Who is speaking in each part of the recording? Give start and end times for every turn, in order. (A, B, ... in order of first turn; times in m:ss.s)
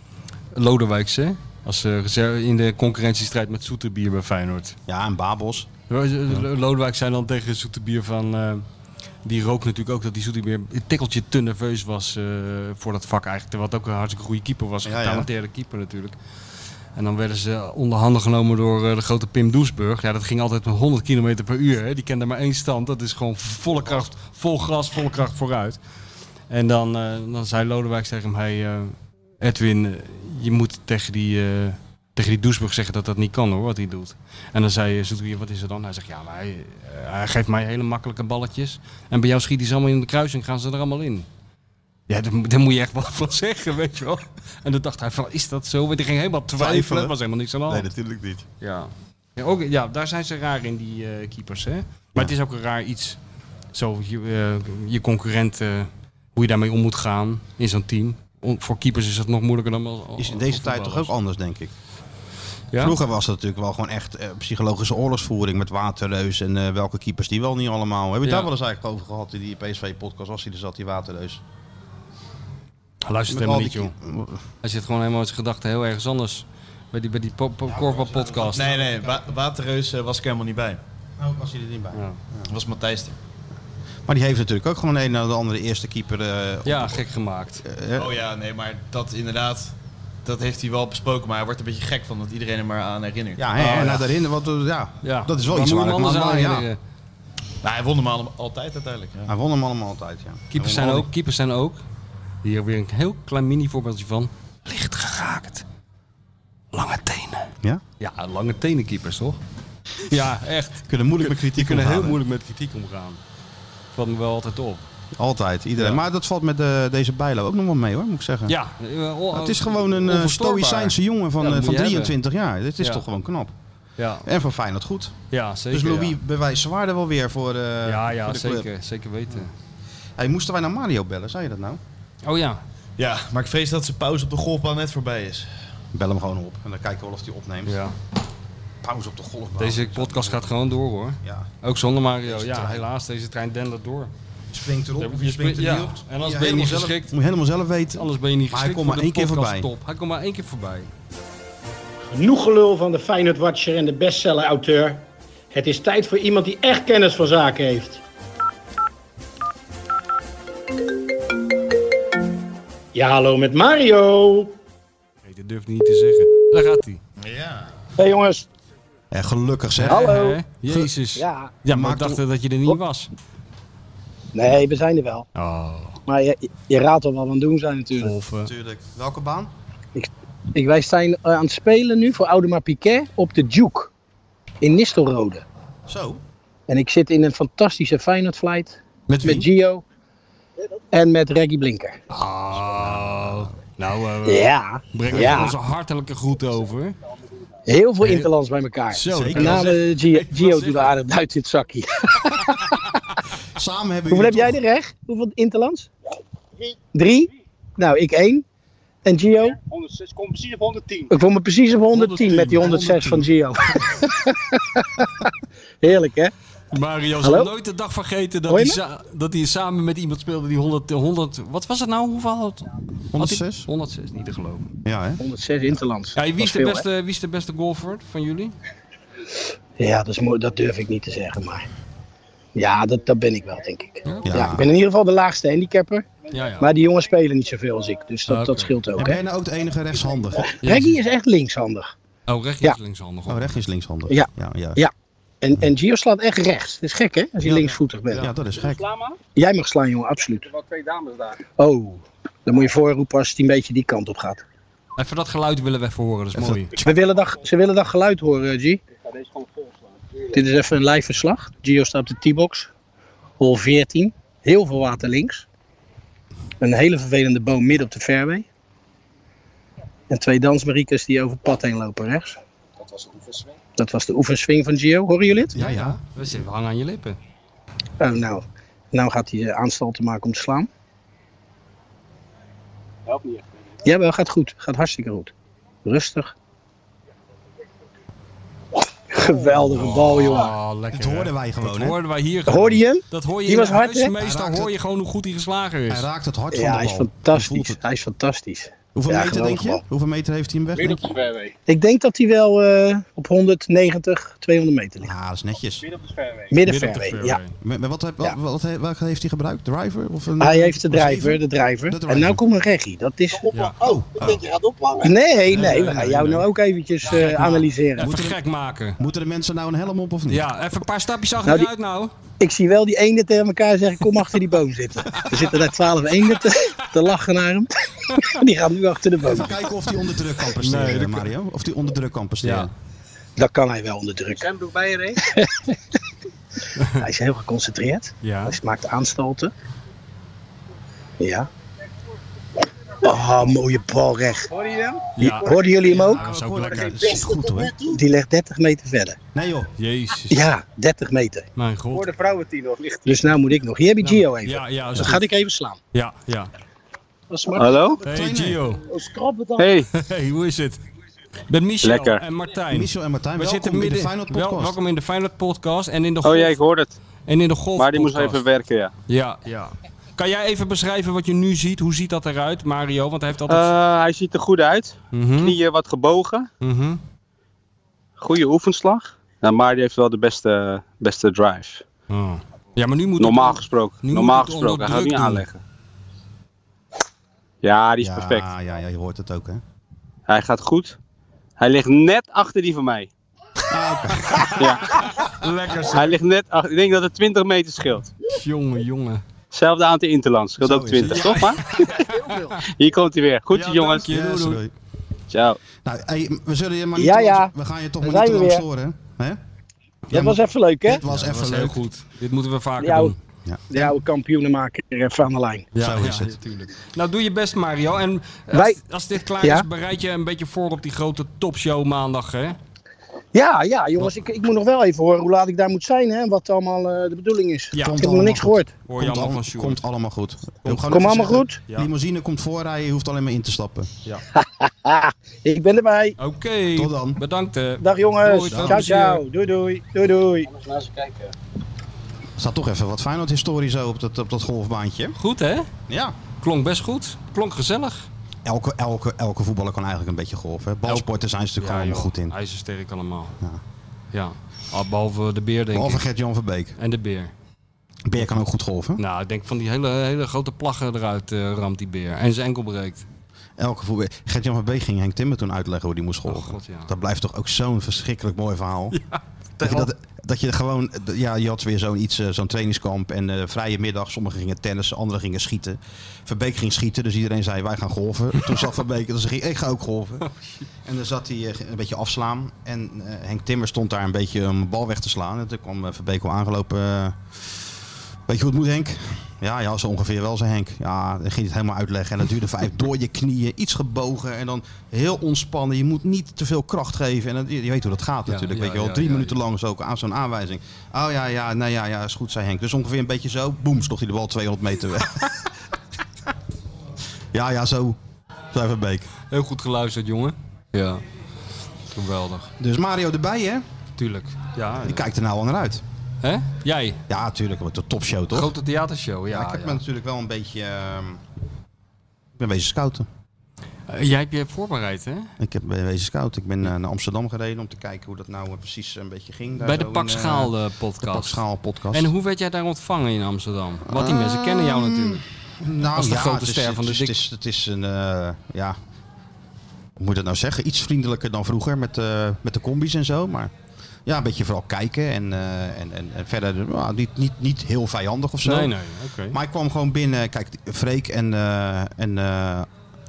0:00.5-0:04.8 A
0:04.9-0:05.7 B
0:05.9-0:08.6 A
0:09.2-0:16.2 A
0:14.8-0:15.3 B
0:16.9-0:25.8 A
0:26.5-0:41.3 A
0:42.1-0:47.9 A
0:46.6-0:47.1 B
0:47.7-0:48.4 B
0:48.6-0:53.2 A
0:53.7-1:01.1 A
1:00.2-1:01.7 B
1:02.7-1:03.0 A
1:02.8-1:11.4 B
1:08.2-1:08.5 A
1:13.0-1:13.9 A
1:13.3-1:14.4 B
1:14.6-1:18.6 A
1:17.7-1:19.1 B
1:18.5-1:20.8 C
1:21.2-1:22.5 B
1:21.9-1:22.2 A
1:22.5-1:23.2 C
1:24.1-1:27.0 B
1:26.6-1:27.6 A
1:27.6-1:28.1 B
1:27.9-1:29.7 C
1:30.2-1:33.9 C
1:33.4-1:36.7 B
1:33.6-1:34.0 A
1:35.0-1:36.8 A
1:37.6-1:39.3 C
1:39.3-1:41.1 B
1:40.5-1:41.8 A
1:42.4-1:45.6 A
1:46.7-1:47.5 A
1:48.0-1:49.4 A
1:50.0-1:53.2 A
1:50.9-1:52.2 B
1:53.9-1:54.8 A
1:55.2-1:58.6 B
1:58.5-2:02.2 A
1:59.3-2:03.5 B
2:04.0-2:04.3 A
2:04.2-2:05.2 B
2:05.3-2:06.2 A
2:05.7-2:08.7 B
2:07.8-2:09.5 A
2:10.2-2:11.8 B
2:12.2-2:12.6 A
2:13.0-2:15.5 C
2:15.9-2:17.8 B
2:17.6-2:17.9 A
2:18.8-2:20.6 B
2:19.6-2:24.1 A
2:21.2-2:21.5 B
2:22.2-2:22.9 B
2:24.5-2:29.7 B
2:25.0-2:27.1 A
2:27.9-2:30.9 A
2:32.1-2:38.0 D
2:42.9-2:44.5 D
2:45.2-2:47.0 A
2:47.2-2:47.7 C
2:48.0-2:48.5 D
2:49.1-2:50.9 B
2:49.8-2:53.1 A
2:49.9-2:50.4 D
2:51.1-2:51.5 D
2:51.7-2:52.2 B
2:54.3-2:55.3 D
2:55.4-2:56.0 A
2:56.1-2:58.1 D
2:58.0-2:58.5 A
2:58.4-2:59.5 B
2:59.9-3:03.9 D
3:04.6-3:05.4 D
3:05.9-3:06.2 B
3:06.7-3:09.8 D
3:09.1-3:09.5 B
3:10.9-3:12.0 D
3:12.1-3:17.0 A
3:12.6-3:13.5 B
3:14.2-3:15.5 D
3:15.1-3:15.5 B
3:17.6-3:22.9 D
3:18.0-3:18.3 A
3:18.9-3:20.8 A
3:19.1-3:19.8 B
3:23.5-3:24.6 B
3:24.1-3:25.9 D
3:26.9-3:28.4 D
3:29.0-3:29.6 D
3:29.7-3:31.1 E
3:31.1-3:35.3 D
3:31.9-3:32.7 A
3:32.3-3:33.3 B
3:35.8-3:36.3 D
3:36.7-3:44.7 A
3:37.2-3:37.5 D
3:38.5-3:38.8 D
3:43.1-3:43.7 B
3:44.8-3:45.2 B
3:45.2-3:46.8 D
3:46.2-3:48.6 A
3:49.8-3:51.7 D
3:52.6-3:56.1 D
3:54.0-3:54.5 A
3:54.2-3:54.7 B
3:56.3-3:56.7 A
3:56.6-3:59.2 D
3:58.3-3:58.8 A
3:59.0-4:00.6 B
4:00.6-4:01.9 D
4:00.6-4:01.0 A
4:02.3-4:03.6 A
4:03.3-4:04.8 B
4:04.1-4:08.3 D
4:07.4-4:08.8 B
4:08.6-4:09.2 E
4:09.4-4:10.5 D
4:10.5-4:11.4 E
4:11.6-4:14.4 D
4:15.0-4:16.8 A
4:16.3-4:16.8 B
4:16.8-4:18.8 D
4:19.2-4:19.7 E
4:20.3-4:22.7 D
4:23.4-4:25.4 D
4:26.6-4:28.4 D
4:30.1-4:32.4 D
4:33.8-4:35.6 D
4:35.5-4:36.0 B
4:35.6-4:37.2 A
4:38.0-4:40.7 D
4:43.8-4:45.3 D
4:45.8-4:46.3 D
4:49.1-4:50.6 D
4:49.6-4:56.1 A
4:50.9-4:52.0 B
4:52.5-4:54.1 D
4:54.2-4:54.7 B
4:55.9-4:57.8 B
4:56.5-4:59.8 D
4:58.9-5:01.1 B
5:00.9-5:01.5 E
5:01.7-5:05.1 D
5:05.0-5:05.9 B
5:06.0-5:06.5 E
5:06.5-5:07.4 D
5:06.6-5:07.5 A
5:07.6-5:12.4 B
5:10.4-5:13.5 D
5:13.5-5:13.8 A
5:13.8-5:14.5 B
5:15.0-5:18.1 D
5:15.5-5:16.5 B
5:17.1-5:19.0 A
5:18.0-5:18.4 B
5:19.0-5:20.5 B
5:20.3-5:22.1 A
5:21.4-5:21.7 D
5:22.4-5:29.6 D
5:28.1-5:28.4 A
5:29.2-5:32.7 B
5:30.6-5:31.3 A
5:32.4-5:32.7 A
5:33.4-5:34.5 D
5:34.4-5:35.2 E
5:35.2-5:35.8 D
5:36.8-5:37.0 A
5:37.0-5:39.5 D
5:38.2-5:38.6 A
5:41.2-5:41.5 D
5:43.0-5:44.7 D
5:44.6-5:45.0 E
5:45.2-5:47.4 A
5:45.2-5:46.2 D
5:46.0-5:47.8 B
5:47.8-5:49.2 D
5:49.3-5:49.7 B
5:49.8-5:50.4 A
5:50.3-5:51.4 D
5:51.6-5:52.2 A
5:52.0-5:53.2 E
5:53.0-5:55.8 D
5:54.0-5:55.2 A
5:55.9-5:56.5 A
5:57.3-5:57.9 D
5:57.5-5:58.0 E
5:58.0-5:58.6 B
5:58.0-5:58.8 A
5:59.0-5:59.6 D
5:59.6-5:59.9 E
5:59.9-6:00.8 A
6:01.5-6:06.6 A
6:01.8-6:02.2 E
6:02.7-6:04.8 B
6:06.2-6:07.0 E
6:07.3-6:08.4 A
6:07.8-6:08.9 E
6:09.1-6:13.7 A
6:13.5-6:16.5 E
6:15.1-6:15.6 A
6:16.6-6:17.0 A
6:18.2-6:21.8 E
6:22.1-6:25.4 A
6:23.2-6:25.6 E
6:27.6-6:28.5 E
6:28.0-6:29.6 B
6:30.3-6:31.0 E
6:31.6-6:33.1 E
6:33.7-6:35.1 B
6:34.2-6:36.1 A
6:34.6-6:35.0 E
6:35.9-6:38.1 E
6:38.3-6:39.2 A
6:39.5-6:41.9 E
6:40.6-6:41.5 B
6:41.0-6:42.6 A
6:42.6-6:44.1 E
6:43.5-6:44.6 A
6:44.1-6:44.7 B
6:45.3-6:45.6 E
6:45.8-6:49.4 B
6:47.0-6:47.5 D
6:48.0-6:48.6 D
6:50.1-6:51.0 D
6:50.1-6:51.8 B
6:51.1-6:53.2 A
6:52.8-6:53.1 D
6:53.4-6:53.9 B
6:53.7-6:55.7 D
6:55.8-7:02.6 A
6:55.8-6:56.4 B
6:58.5-6:59.6 D
7:03.3-7:08.7 D
7:07.7-7:08.0 A
7:07.8-7:13.9 B
7:08.9-7:09.8 A
7:10.6-7:11.9 A
7:10.9-7:11.6 D
7:14.3-7:16.2 D
7:16.2-7:19.2 A
7:16.7-7:17.2 B
7:17.8-7:21.0 D
7:18.5-7:18.8 B
7:22.4-7:25.2 B
7:25.2-7:25.7 A
7:25.9-7:26.2 B
7:26.4-7:28.1 A
7:28.4-7:32.4 B
7:31.6-7:33.4 A
7:34.1-7:36.0 A
7:35.7-7:36.8 B
7:36.8-7:37.3 A
7:38.1-7:39.0 B
7:39.0-7:43.0 A
7:43.6-7:49.0 B
7:46.3-7:46.9 A
7:48.9-7:49.9 A
7:49.6-8:00.3 B
8:00.8-8:07.2 B
8:08.3-8:25.5 B
8:18.3-8:19.4 A
8:27.3-8:28.0 B
8:28.5-8:29.1 B
8:29.3-8:31.0 A
8:31.9-8:32.5 A
8:32.6-8:33.6 B
8:34.0-8:35.0 A
8:34.8-8:35.8 B
8:36.2-8:37.0 A
8:37.1-8:38.5 B
8:38.3-8:39.8 A
8:39.3-8:41.2 B
8:42.4-8:43.1 B
8:43.9-8:45.3 A
8:45.4-8:52.1 B
8:49.6-8:55.2 A
8:53.9-8:58.8 B
8:55.9-8:57.2 A
9:00.0-9:03.5 B
9:04.1-9:08.8 B
9:08.4-9:09.4 A
9:09.3-9:12.7 B